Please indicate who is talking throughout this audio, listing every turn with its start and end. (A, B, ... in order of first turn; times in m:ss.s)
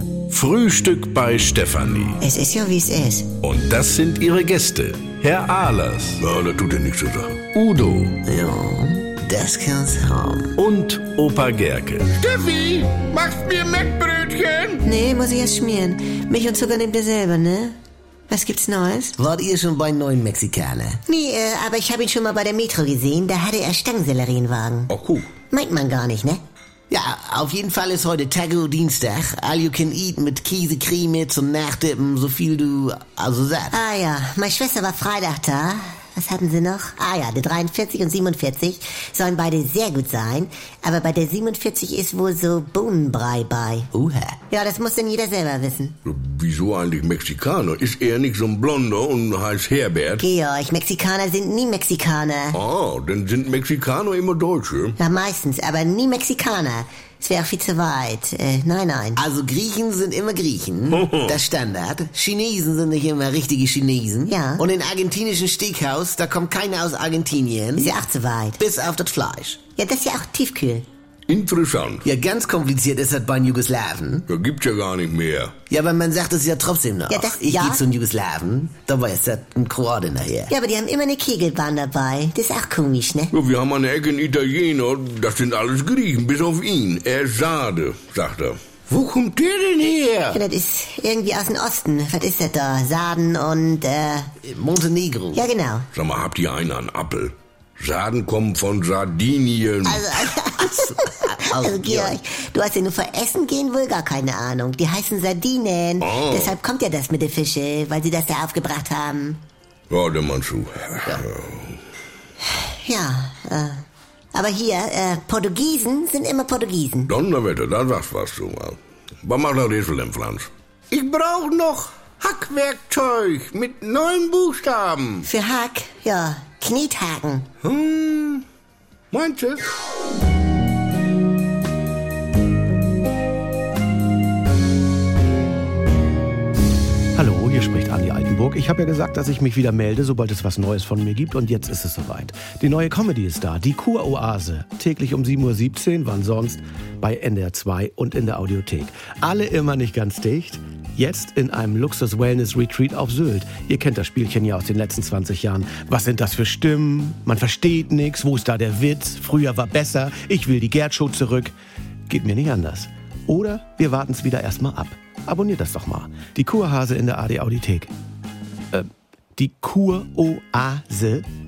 0:00.3-0:02.1 A
0:00.3-0:02.1 B
0:02.2-0:03.3 C
0:03.4-0:08.2 B
0:03.7-0:06.1 A
0:08.2-0:10.5 D
0:10.6-0:12.1 A
0:12.0-0:14.8 B
0:14.8-0:17.8 C
0:18.3-0:19.2 C
0:19.2-0:21.0 D
0:21.1-0:24.9 C
0:24.9-0:25.3 B
0:25.5-0:26.4 C
0:26.9-0:33.7 D
0:33.7-0:43.9 C
0:43.9-0:44.4 D
0:44.5-0:46.0 C
0:46.0-0:50.2 B
0:50.2-0:52.6 C
0:52.5-0:55.0 B
0:55.0-0:59.2 C
0:59.2-1:07.9 D
1:00.9-1:01.4 B
1:04.3-1:04.6 C
1:07.8-1:08.6 C
1:08.6-1:09.6 D
1:09.8-1:10.8 C
1:11.3-1:12.0 B
1:12.0-1:14.2 D
1:14.3-1:15.5 B
1:15.7-1:20.5 D
1:17.1-1:17.8 C
1:20.5-1:23.3 C
1:23.3-1:30.4 B
1:30.3-1:34.3 C
1:34.4-1:35.4 D
1:35.3-1:35.9 C
1:35.9-1:40.3 B
1:39.8-1:49.4 C
1:40.6-1:42.2 D
1:46.0-1:46.5 B
1:49.9-1:51.7 B
1:52.4-1:53.8 C
1:54.3-1:57.1 C
1:57.1-2:05.2 B
2:05.2-2:07.5 C
2:07.6-2:08.4 B
2:09.1-2:09.6 B
2:17.1-2:41.5 E
2:42.1-2:47.9 E
2:48.7-2:51.2 E